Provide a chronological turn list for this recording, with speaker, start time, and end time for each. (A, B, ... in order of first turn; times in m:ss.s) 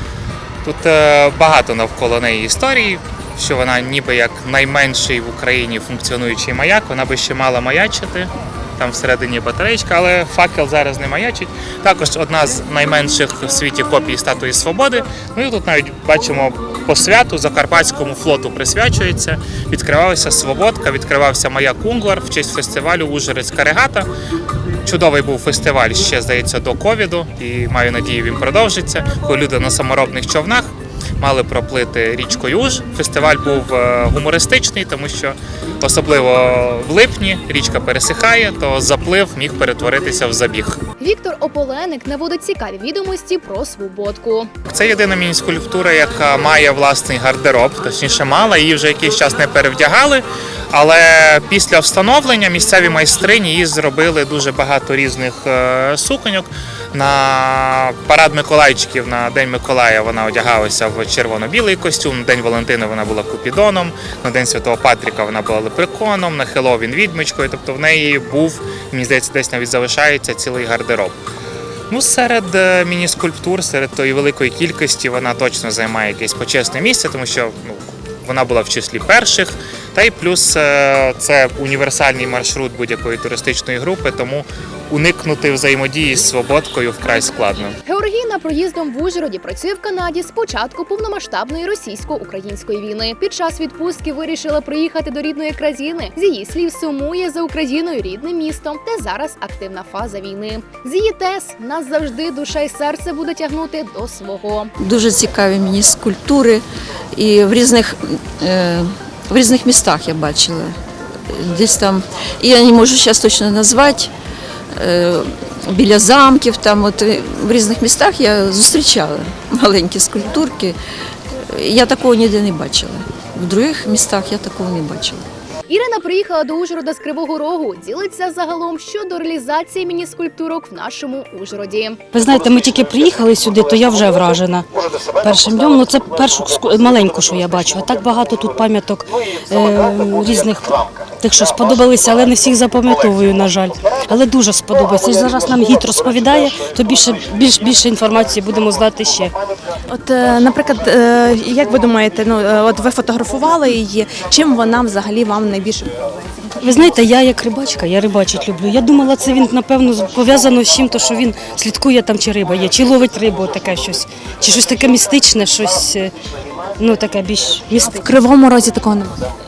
0:00.6-0:24.1 A
0:24.8-0:40.8 A
0:41.0-0:44.5 B
0:44.7-1:11.2 A
1:11.9-1:27.8 A
1:27.8-1:44.7 B
1:44.8-1:46.6 C
1:47.1-1:50.7 C
1:51.2-1:54.1 C
1:54.7-2:00.8 C
2:01.3-2:05.2 C
2:05.7-2:12.0 B
2:12.1-2:29.3 D
2:29.9-2:35.9 E
2:36.6-2:46.1 D
2:46.8-2:48.0 D
2:47.8-2:49.1 E